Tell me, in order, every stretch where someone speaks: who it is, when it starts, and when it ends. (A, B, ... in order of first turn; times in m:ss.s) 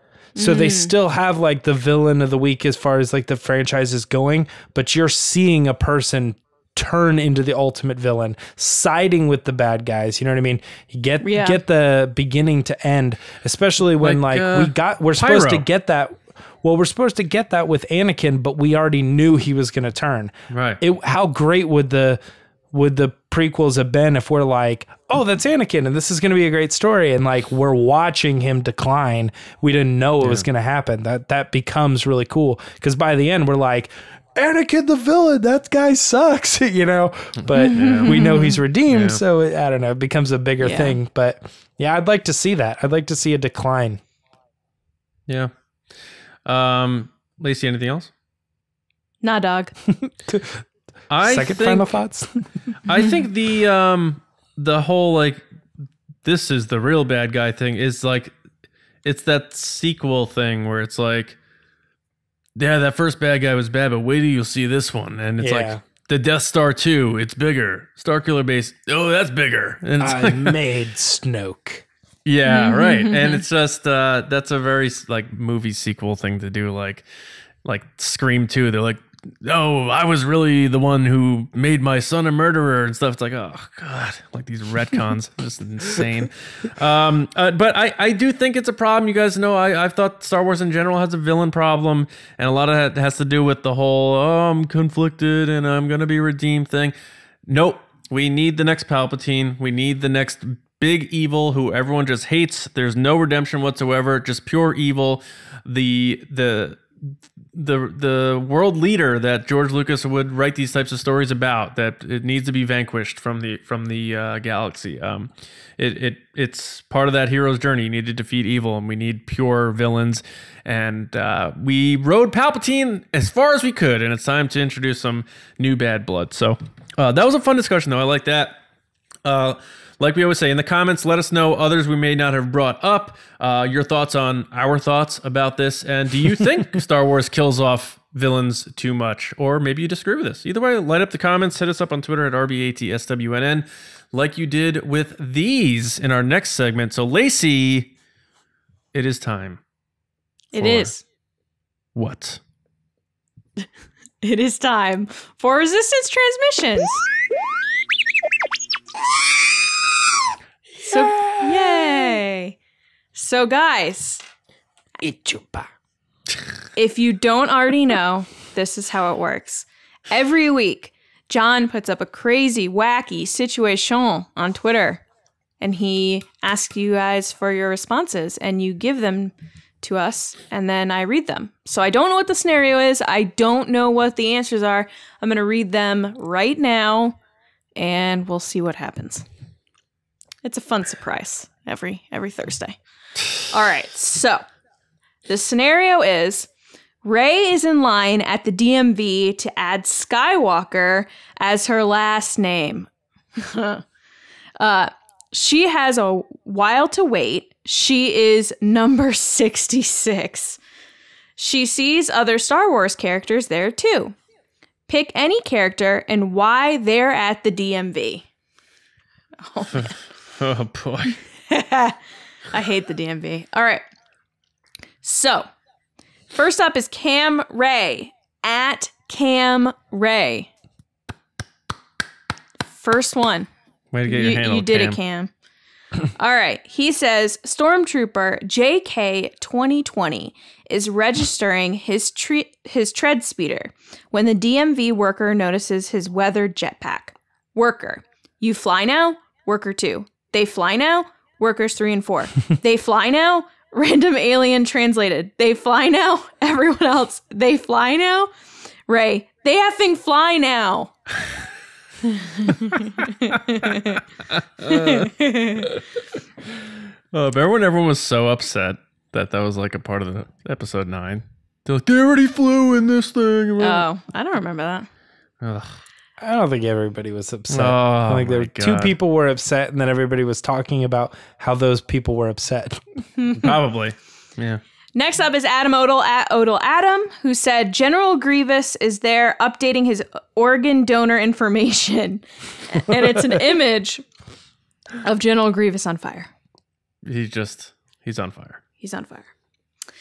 0:00.4-0:00.9 A
0:00.4-0:22.2 B
0:11.2-0:11.6 A
0:14.0-0:15.6 C
0:20.5-0:20.8 C
0:22.7-0:44.0 B
0:37.6-0:38.6 A
0:37.7-0:38.2 C
0:38.9-0:39.2 C
0:40.6-0:41.0 A
0:46.4-0:48.1 C
0:49.2-0:49.7 A
0:50.0-0:50.6 B
0:51.1-0:51.9 C
0:51.2-0:52.4 B
0:52.9-0:55.4 C
0:56.2-0:58.3 C
0:59.0-1:01.4 C
1:02.6-1:10.6 C
1:05.4-1:05.8 B
1:10.0-1:11.9 B
1:12.2-1:17.0 C
1:12.4-1:13.4 A
1:17.6-1:36.9 C
1:37.5-2:08.6 C
2:09.2-2:27.9 C
2:28.9-2:29.6 C
2:30.5-2:31.0 A
2:30.6-2:30.9 C
2:32.0-2:32.4 C
2:34.2-2:37.0 A
2:40.8-2:42.6 A
2:43.1-2:44.2 A
2:45.0-2:45.7 B
2:46.8-2:55.0 A
2:55.6-3:07.2 A
3:07.8-3:09.2 A
3:10.4-3:12.8 A
3:13.5-3:14.4 A
3:15.3-3:16.5 A
3:17.0-3:23.8 A
3:24.6-3:30.6 A
3:31.4-3:34.2 A
3:34.9-3:38.2 A
3:39.4-3:39.9 A
3:39.7-3:41.2 C
3:41.5-3:42.0 A
3:42.5-3:43.8 A
3:45.0-3:45.5 A
3:46.3-3:50.5 A
3:52.7-3:53.5 A
3:53.9-3:55.0 C
3:54.1-3:55.3 A
3:56.1-4:18.3 A
4:18.9-4:20.9 A
4:22.1-4:24.0 A
4:24.6-4:25.1 C
4:24.6-4:25.8 A
4:27.1-4:33.8 C
4:33.6-4:34.9 A
4:35.4-4:35.7 C
4:36.2-4:42.8 B
4:37.5-4:38.9 C
4:43.2-4:43.5 A
4:43.4-4:44.6 C
4:45.0-4:54.0 A
4:55.0-4:56.3 A
4:57.0-4:58.6 C
4:58.8-4:59.3 A